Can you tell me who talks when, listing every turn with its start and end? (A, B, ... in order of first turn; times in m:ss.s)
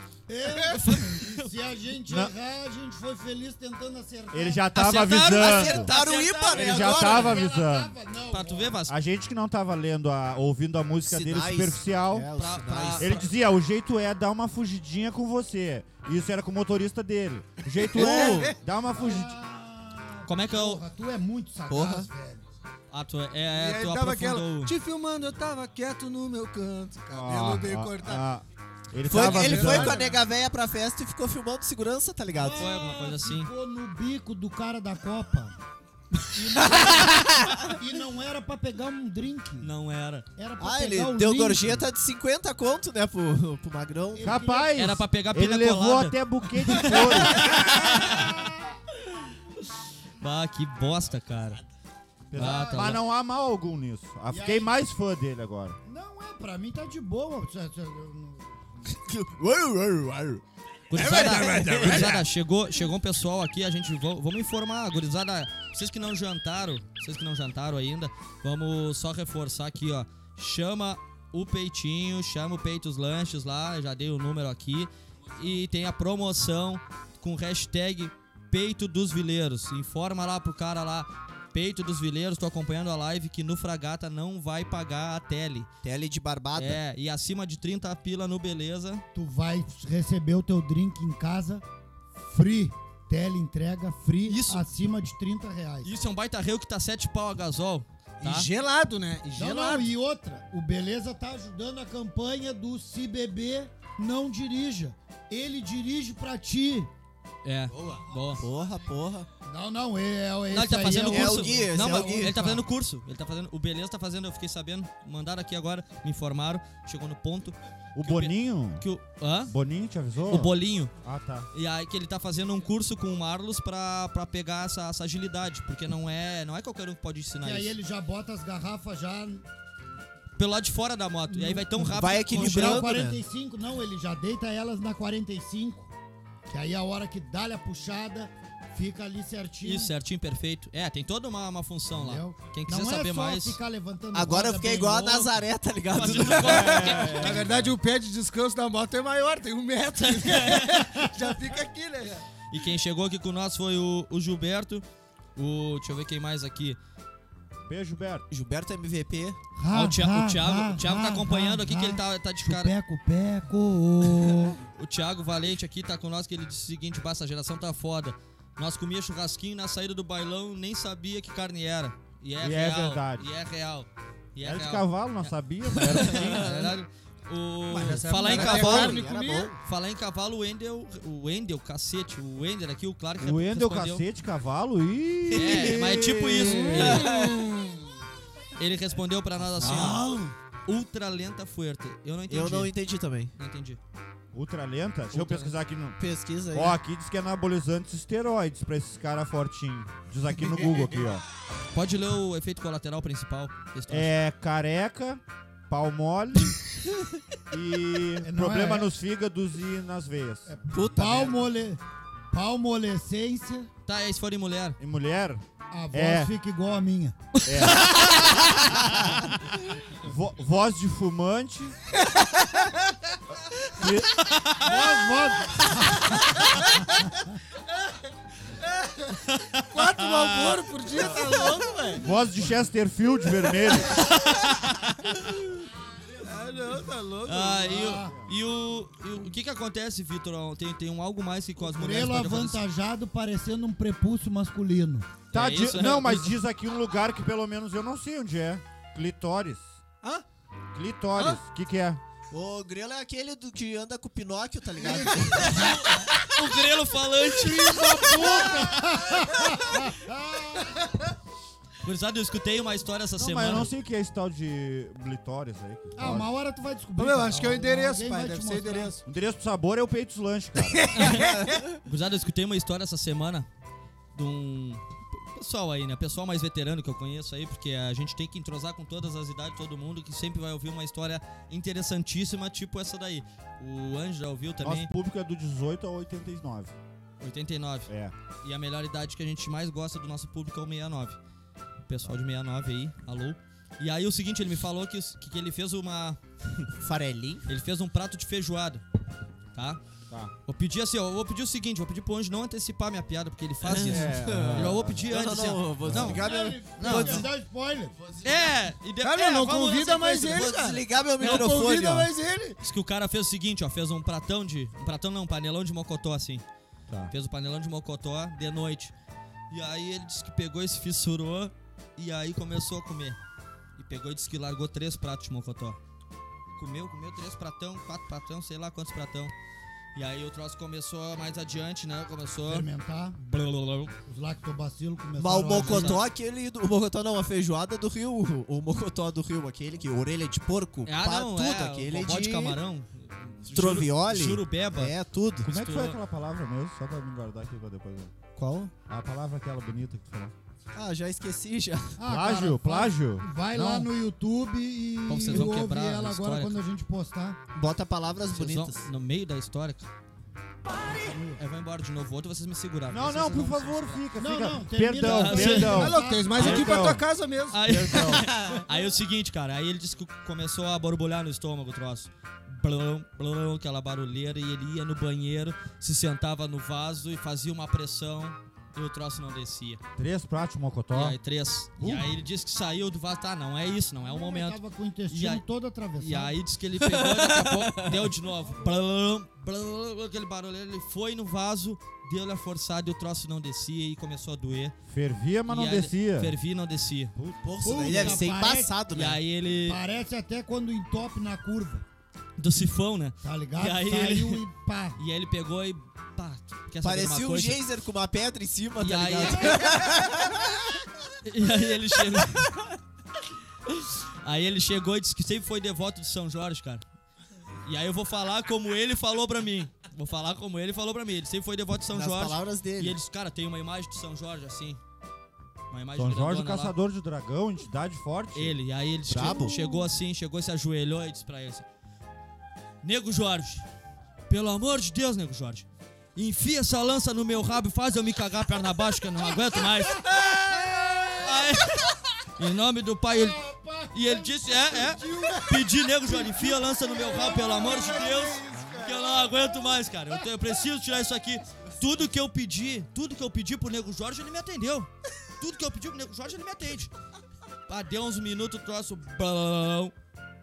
0:00.3-0:04.7 A
0:00.8-0:01.5 B
0:02.1-0:02.3 C
0:04.3-0:05.9 C
0:04.7-0:07.1 B
0:05.2-0:07.4 D
0:06.5-0:07.9 C
0:07.0-0:08.8 A
0:08.3-0:08.9 B
0:08.9-0:12.3 C
0:11.0-0:13.2 D
0:12.4-0:13.2 B
0:13.0-0:19.3 C
0:17.9-0:18.5 E
0:17.9-0:18.5 D
0:18.9-0:22.4 A
0:20.3-0:20.8 B
0:21.7-0:22.1 D
0:22.9-0:24.7 B
0:23.5-0:28.2 E
0:27.1-0:30.1 C
0:29.1-0:32.8 D
0:29.1-0:30.2 E
0:32.3-0:35.6 A
0:32.5-0:33.5 B
0:36.3-0:39.7 A
0:36.8-0:37.8 D
0:39.6-0:40.2 B
0:40.4-0:41.8 A
0:40.6-0:44.3 D
0:44.1-0:44.7 A
0:44.2-0:47.5 C
0:44.8-0:48.2 B
0:47.4-0:48.8 A
0:50.2-0:51.6 B
0:52.3-0:55.8 C
0:52.3-0:53.0 B
0:52.4-0:52.9 A
0:54.3-0:54.7 A
0:55.8-0:58.8 A
0:58.9-1:02.3 D
1:00.9-1:25.7 B
1:25.8-1:26.8 D
1:26.5-1:29.0 B
1:29.1-1:31.6 A
1:32.2-1:35.9 A
1:34.3-1:34.6 B
1:35.8-1:38.5 B
1:38.2-1:39.9 E
1:39.4-1:46.9 A
1:47.4-1:48.4 B
1:47.7-1:48.0 E
1:48.4-1:49.3 D
1:49.4-1:52.6 A
1:50.5-1:59.5 B
1:51.1-1:52.6 D
1:57.9-1:58.9 C
1:59.4-2:01.5 C
2:00.2-2:00.9 B
2:01.5-2:07.7 B
2:07.4-2:09.4 A
2:10.4-2:12.9 B
2:11.3-2:15.9 A
2:11.9-2:13.2 D
2:16.5-2:19.9 A
2:19.6-2:23.6 B
2:21.9-2:25.3 A
2:24.1-2:26.9 D
2:25.9-2:27.3 B
2:26.3-2:27.7 C
2:26.7-2:32.2 E
2:30.2-2:30.7 B
2:32.5-2:34.8 B
2:35.4-2:36.8 B
2:37.6-2:38.2 C
2:38.3-2:39.4 D
2:39.6-2:44.6 A
2:39.7-2:42.7 B
2:44.7-2:59.0 B
2:52.4-2:53.3 C
2:54.4-2:56.7 C
2:57.7-2:59.5 E
2:58.2-2:59.5 D
2:59.6-3:04.0 B
3:03.2-3:07.0 C
3:05.3-3:07.1 B
3:06.6-3:07.5 D
3:08.6-3:10.0 B
3:09.6-3:10.3 D
3:09.6-3:10.0 C
3:10.6-3:12.7 B
3:12.3-3:13.3 D
3:13.4-3:13.8 B
3:14.3-3:16.0 C
3:16.0-3:16.8 D
3:16.5-3:21.2 C
3:21.7-3:24.1 B
3:23.9-3:26.6 C
3:27.5-3:30.5 C
3:28.2-3:28.9 A
3:30.5-3:31.8 A
3:30.7-3:31.4 D
3:32.3-3:33.7 A
3:33.8-3:34.8 B
3:34.8-3:36.3 C
3:35.7-3:37.2 A
3:37.4-3:39.3 C
3:37.7-3:38.0 B
3:39.9-3:41.8 C
3:42.4-3:42.6 E
3:43.6-3:44.3 C
3:44.2-3:44.7 B
3:44.6-3:46.4 A
3:48.6-3:49.1 E
3:49.2-3:50.6 B
3:49.7-3:52.0 E
3:52.0-3:54.0 C
3:53.9-3:55.4 B
3:56.2-3:57.8 E
3:57.2-4:02.6 B
3:57.6-3:58.2 A
3:58.0-3:58.3 C
4:01.6-4:05.1 A
4:05.3-4:06.3 B
4:05.3-4:09.8 C
4:10.7-4:12.0 C
4:12.3-4:16.3 D
4:14.8-4:16.0 A
4:15.3-4:18.2 B
4:17.2-4:20.9 A
4:21.8-4:23.7 B
4:23.2-4:26.3 C
4:26.0-4:28.9 A
4:27.0-4:29.0 E
4:29.0-4:31.1 C
4:30.6-4:31.6 E
4:30.9-4:33.5 B
4:31.2-4:31.7 D
4:34.1-4:44.9 B
4:44.6-4:46.7 C
4:47.2-4:47.9 B
4:47.9-4:48.1 C
4:48.4-4:51.2 B
4:51.9-4:56.7 B
4:56.7-4:57.4 D
4:57.5-4:58.8 B
4:59.5-4:59.8 B
5:00.4-5:06.2 B
5:03.6-5:07.2 D
5:03.8-5:05.1 C
5:05.8-5:06.2 C
5:06.1-5:08.0 A
5:06.8-5:07.2 B
5:08.2-5:10.5 B
5:09.0-5:12.6 E
5:10.3-5:12.1 D
5:11.2-5:11.5 B
5:12.6-5:16.4 B
5:17.1-5:18.9 B
5:19.5-5:23.2 B
5:23.8-5:25.8 B
5:26.6-5:29.3 B
5:29.9-5:33.9 B
5:32.4-5:33.2 A
5:34.0-5:36.0 A
5:35.2-5:42.6 D
5:35.5-5:36.0 B
5:40.8-5:46.0 B
5:43.5-5:45.5 D
5:45.4-5:48.2 C
5:48.3-5:48.7 D
5:48.8-5:50.3 C
5:50.7-5:52.0 D
5:52.0-5:57.4 A
5:52.0-5:53.8 C
5:55.1-5:56.6 B
5:57.5-5:58.9 D
5:58.3-5:59.9 B
6:00.8-6:01.4 A
6:01.4-6:04.0 B
6:02.9-6:07.0 C
6:04.2-6:06.9 A
6:05.0-6:05.8 B
6:05.5-6:08.1 E
6:06.4-6:06.8 B
6:07.5-6:19.8 B
6:07.6-6:08.3 C
6:20.0-6:21.2 C
6:20.9-6:24.6 B
6:21.8-6:22.1 C
6:24.0-6:26.4 A
6:25.1-6:25.4 B
6:26.0-6:34.7 B
6:27.1-6:27.8 D
6:34.8-6:36.3 C
6:35.5-6:37.1 B
6:37.2-6:37.8 C
6:37.4-6:39.2 D
6:37.6-6:38.8 A
6:38.9-6:39.8 B
6:39.6-6:41.8 A
6:42.4-6:44.4 B
6:43.2-6:45.0 A
6:45.0-6:47.6 B
6:46.8-6:50.5 D
6:48.8-6:49.7 B
6:51.2-6:52.5 B
6:53.7-6:56.8 B
6:57.6-7:04.8 B
7:01.9-7:03.0 D
7:05.7-7:06.7 B
7:06.0-7:08.6 C
7:08.3-7:11.6 B
7:09.1-7:09.7 D
7:12.8-7:13.6 B
7:14.3-7:20.1 B
7:20.1-7:21.5 A
7:21.2-7:36.9 B
7:23.1-7:25.4 A
7:25.0-7:25.6 E
7:27.0-7:29.3 E
7:27.0-7:27.9 A
7:37.7-7:39.9 B